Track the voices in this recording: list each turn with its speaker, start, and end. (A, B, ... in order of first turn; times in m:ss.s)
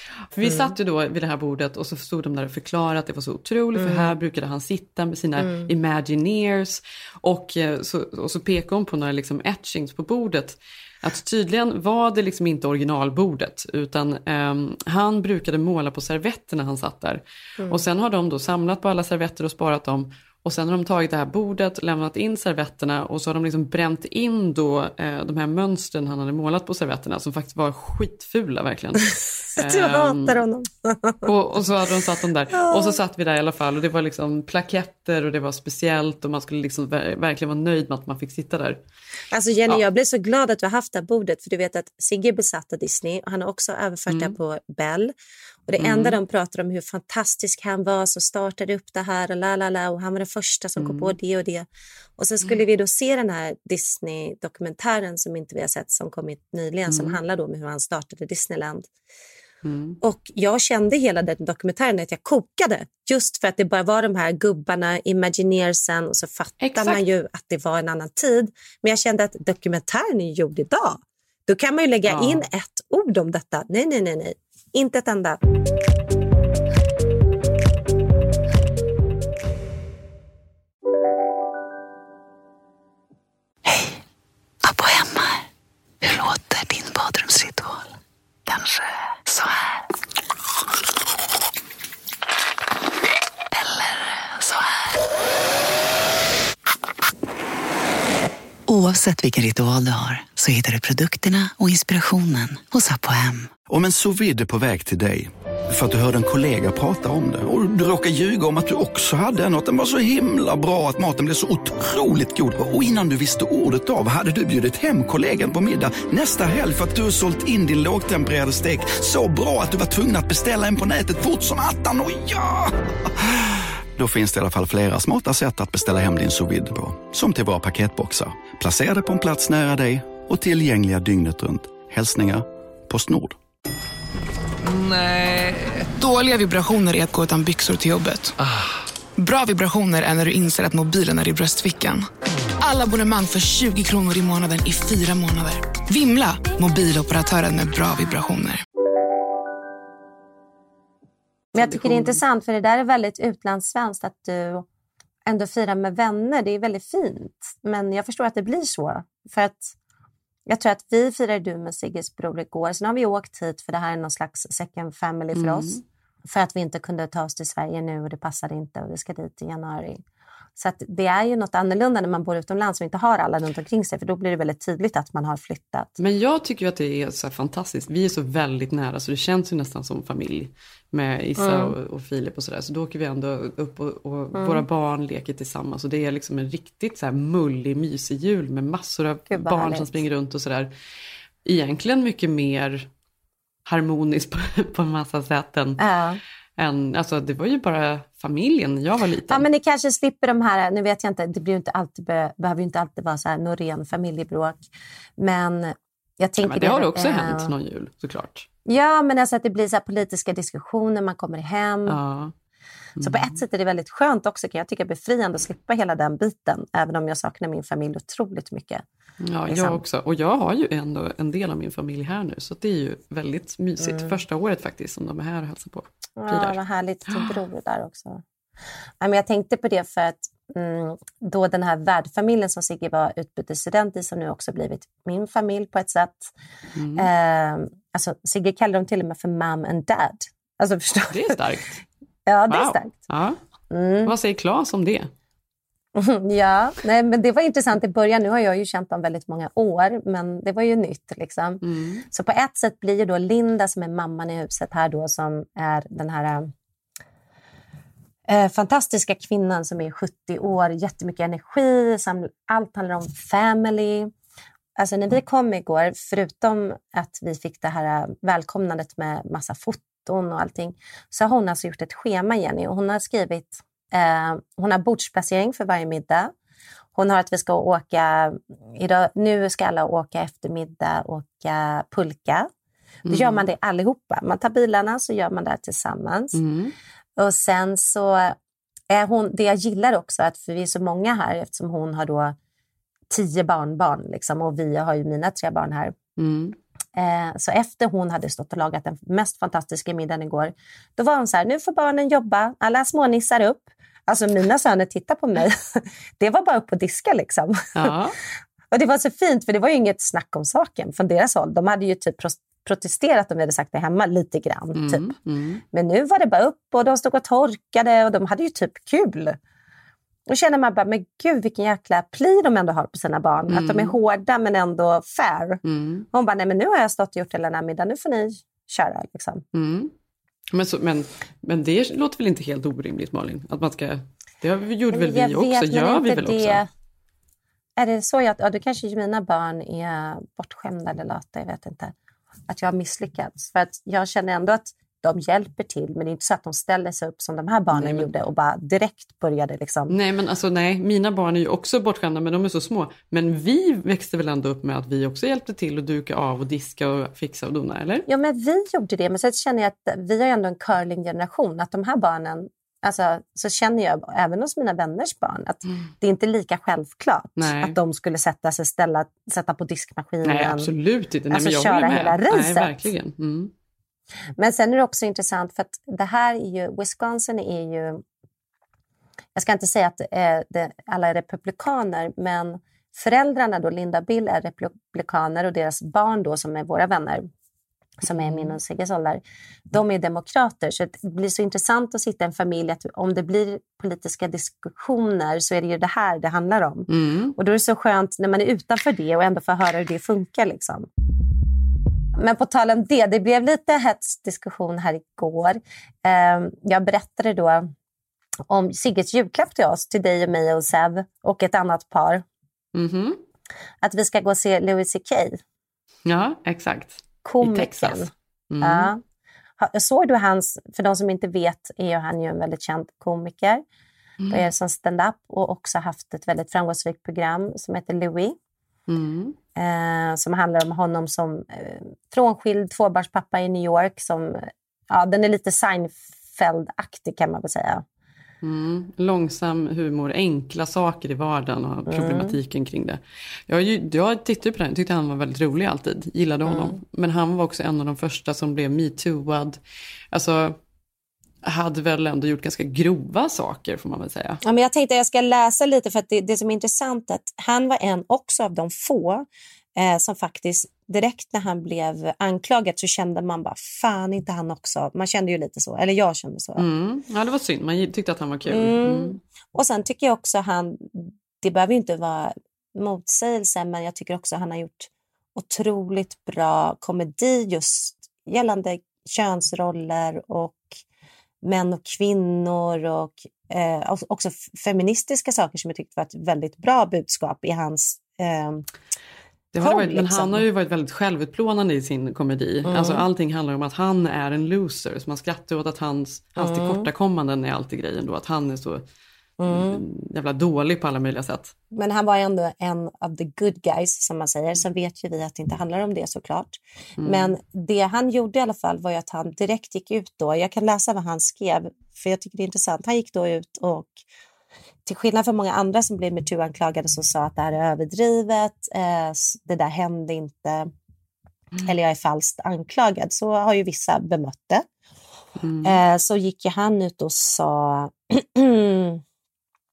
0:00.3-0:30.4 A
0:00.4-0:00.7 B
0:03.8-0:04.1 B
0:05.4-0:05.7 B
0:29.6-0:31.3 B
0:31.2-0:38.8 A
0:32.5-0:33.0 B
0:39.3-0:45.1 B
0:44.1-0:44.3 A
0:45.7-0:58.9 B
0:45.8-0:46.2 A
0:50.8-0:51.1 A
0:56.9-0:57.2 A
0:59.6-1:00.0 A
1:00.0-1:15.4 B
1:06.6-1:07.0 A
1:12.1-1:12.4 A
1:24.6-1:25.3 C
1:26.0-1:27.8 C
1:38.7-1:43.5 C
1:43.7-2:13.4 D
2:14.6-2:18.3 E
2:19.2-2:22.1 E
2:22.6-2:28.6 E
2:31.5-2:34.6 B
2:31.6-2:32.2 A
2:35.2-2:39.7 B
2:40.5-2:50.0 B
2:45.3-2:45.8 A
2:50.6-2:55.9 B
2:56.0-3:10.7 A
3:01.4-3:01.7 B
3:04.3-3:04.6 B
3:09.3-3:09.9 B
3:11.4-3:12.9 A
3:13.6-3:15.8 A
3:15.8-3:16.2 B
3:16.6-3:19.4 A
3:19.3-3:24.6 B
3:25.2-3:27.5 B
3:26.4-3:28.5 A
3:28.6-3:32.0 B
3:31.9-3:32.3 A
3:33.0-3:33.4 A
3:33.0-3:38.8 B
3:39.2-3:47.3 A
3:39.5-3:39.8 B
3:43.8-3:44.1 B
3:46.2-3:48.2 B
3:49.0-3:56.3 B
3:56.8-3:57.1 A
3:57.0-4:01.4 B
4:01.1-4:01.8 A
4:02.3-4:03.0 B
4:02.5-4:03.4 A
4:03.7-4:04.1 B
4:04.0-4:05.1 A
4:05.9-4:16.5 B
4:11.6-4:12.0 A
4:18.3-4:24.1 B
4:24.8-4:36.3 B
4:36.9-4:42.5 B
4:43.0-4:43.4 A
4:43.1-4:46.4 B
4:46.3-4:46.7 A
4:47.2-4:48.4 B
4:48.9-4:52.4 B
4:53.1-4:55.9 B
4:56.2-4:56.6 A
4:56.9-5:07.9 B
5:07.8-5:08.2 A
5:08.7-5:15.1 B
5:14.7-5:15.6 A
5:15.7-5:19.4 B
5:20.3-5:29.4 B
5:23.5-5:23.9 A
5:25.6-5:26.0 A
5:29.5-5:29.9 A
5:30.5-5:36.6 A
5:34.9-5:36.7 B
5:37.8-5:41.9 B
5:42.5-5:49.9 B
5:47.7-5:48.1 A
5:49.9-5:58.1 A
5:58.1-6:10.7 B
6:07.4-6:07.8 A
6:10.2-6:13.5 A
6:11.3-6:12.7 B
6:14.4-6:18.0 B
6:19.3-6:27.3 B
6:28.0-6:40.9 B
6:28.1-6:28.5 A
6:36.9-6:37.4 A
6:42.2-6:47.7 B
6:48.5-6:52.2 B
6:52.7-6:53.2 A
6:53.8-6:55.4 B
6:56.0-6:58.9 A
6:57.2-6:59.0 B
6:59.6-7:03.6 B
7:04.2-7:04.5 A
7:04.3-7:08.4 B
7:08.9-7:09.4 A
7:09.6-7:17.8 B
7:18.4-7:29.6 A
7:21.9-7:22.4 B
7:26.5-7:26.8 B
7:30.1-7:30.6 A
7:31.4-7:34.4 A
7:34.4-7:46.6 B
7:46.6-7:49.2 A
7:48.5-8:00.8 B
8:01.4-8:08.6 B
8:09.5-8:18.8 A
8:09.6-8:10.4 B
8:12.6-8:13.0 B
8:16.4-8:16.9 B
8:19.4-8:19.8 B
8:19.4-8:21.5 A
8:21.7-8:34.0 B
8:27.0-8:27.3 A
8:34.8-8:40.7 B
8:41.6-8:44.7 B
8:45.4-8:45.8 A
8:45.6-8:49.0 B